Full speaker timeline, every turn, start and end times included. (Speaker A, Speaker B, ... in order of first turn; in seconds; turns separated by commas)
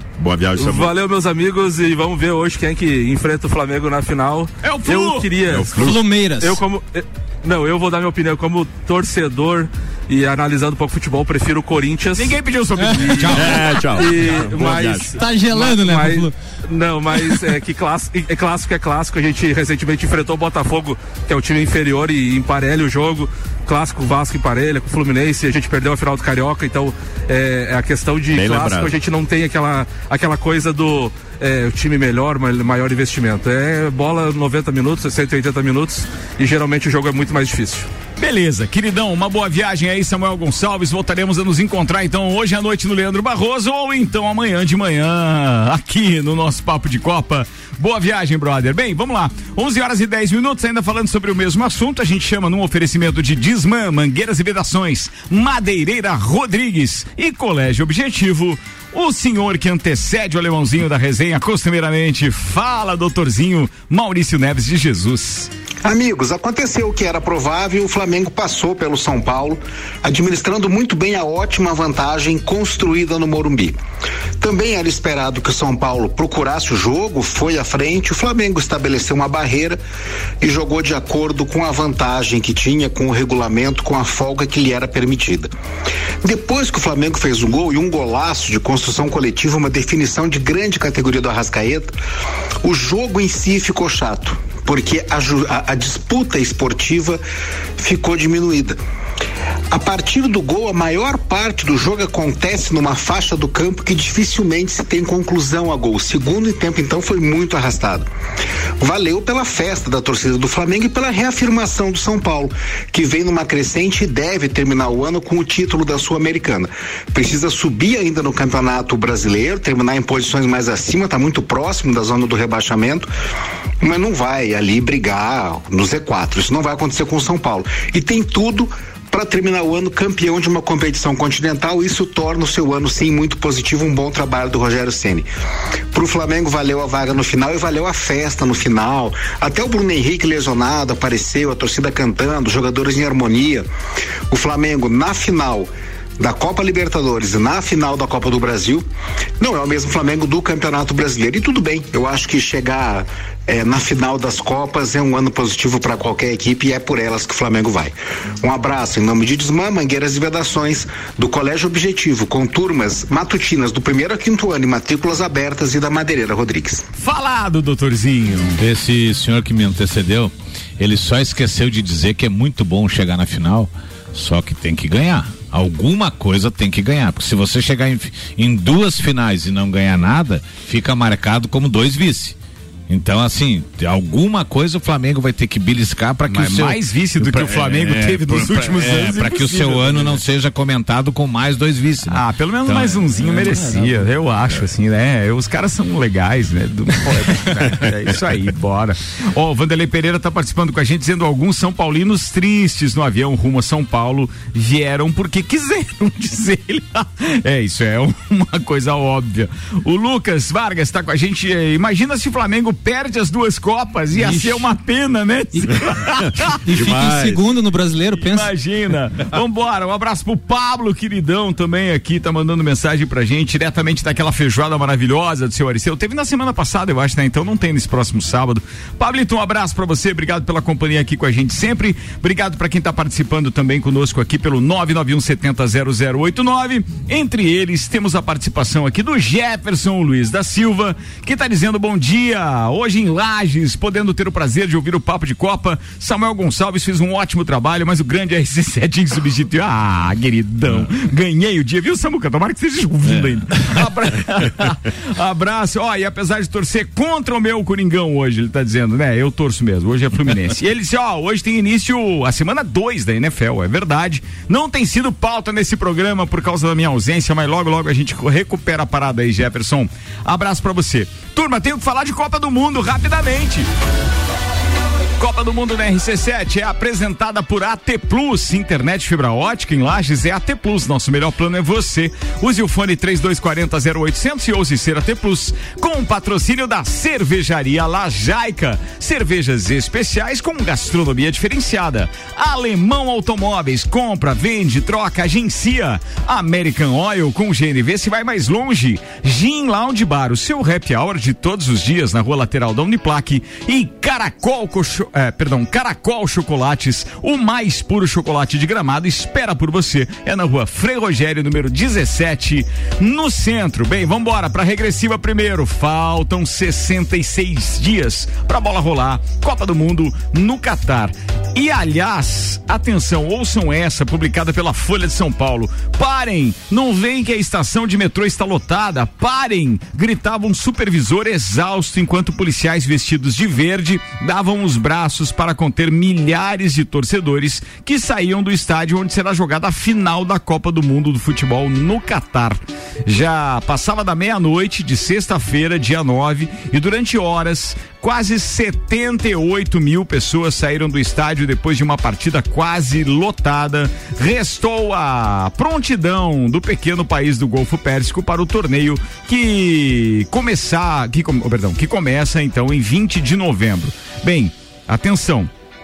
Speaker A: 0.2-0.9, Speaker B: 0.6-12.4, Speaker C: 4.6-5.5, Speaker A: 5.4-6.0, Speaker D: 5.7-6.6, Speaker C: 12.2-13.8, Speaker D: 12.8-13.4, Speaker B: 12.9-37.9, Speaker A: 13.3-15.1, Speaker D: 15.2-16.3, Speaker A: 28.3-28.9, Speaker C: 38.2-65.5, Speaker E: 65.8-73.8, Speaker E: 74.4-79.8, Speaker E: 80.4-85.5, Speaker E: 86.2-91.9, Speaker E: 92.6-97.2, Speaker E: 97.8-98.8, Speaker E: 99.7-108.0, Speaker E: 108.8-123.1, Speaker E: 123.8-135.2, Speaker E: 135.9-143.7, Speaker E: 144.3-148.8, Speaker E: 149.4-166.8, Speaker C: 167.0-168.6, Speaker F: 168.6-182.3, Speaker F: 182.9-193.1, Speaker C: 186.2-190.2, Speaker C: 192.1-216.5, Speaker D: 193.2-194.1, Speaker D: 214.1-214.7, Speaker A: 216.2-217.4, Speaker D: 216.6-218.5, Speaker C: 218.2-273.7, Speaker F: 253.1-253.8, Speaker C: 275.2-365.5